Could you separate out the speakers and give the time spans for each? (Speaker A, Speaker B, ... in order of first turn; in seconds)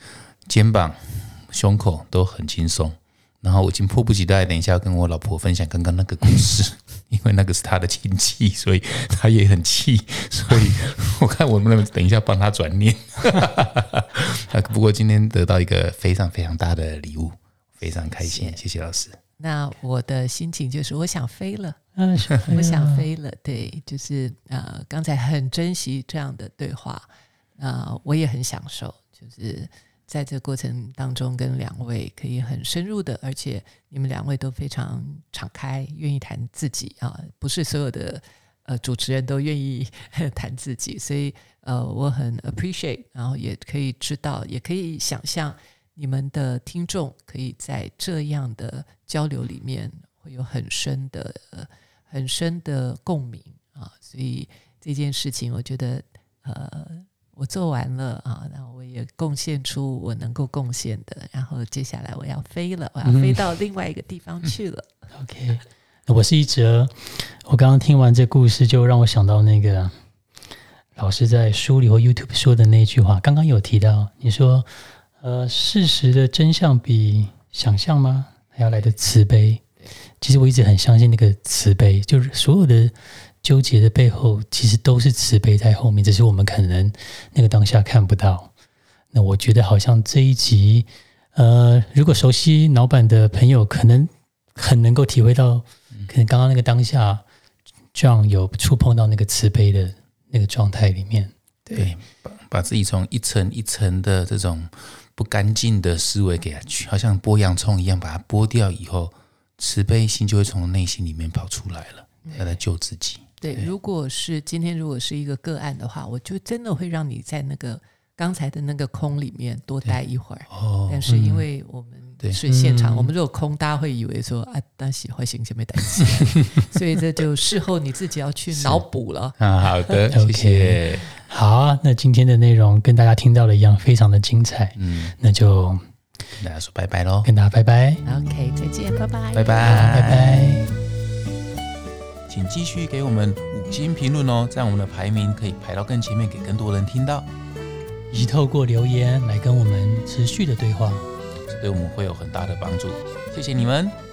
Speaker A: 0.5-19.2, 101.7-113.7, 120.5-121.4, 128.5-128.8, 129.4-131.1, 134.8-135.1, 136.4-137.3, 139.3-140.7, 142.3-147.3, 151.5-154.0
Speaker B: 18.1-18.6, 19.4-21.8, 22.4-27.1, 27.6-64.9, 101.7-101.9, 112.2-112.6, 113.4-130.1, 138.0-140.0
Speaker C: 22.0-23.1, 63.0-63.4, 65.1-70.0, 71.0-79.7, 80.2-88.5, 89.1-97.2, 97.9-101.3, 122.5-123.1, 130.1-135.9, 137.2-138.0, 139.6-140.7, 148.1-151.1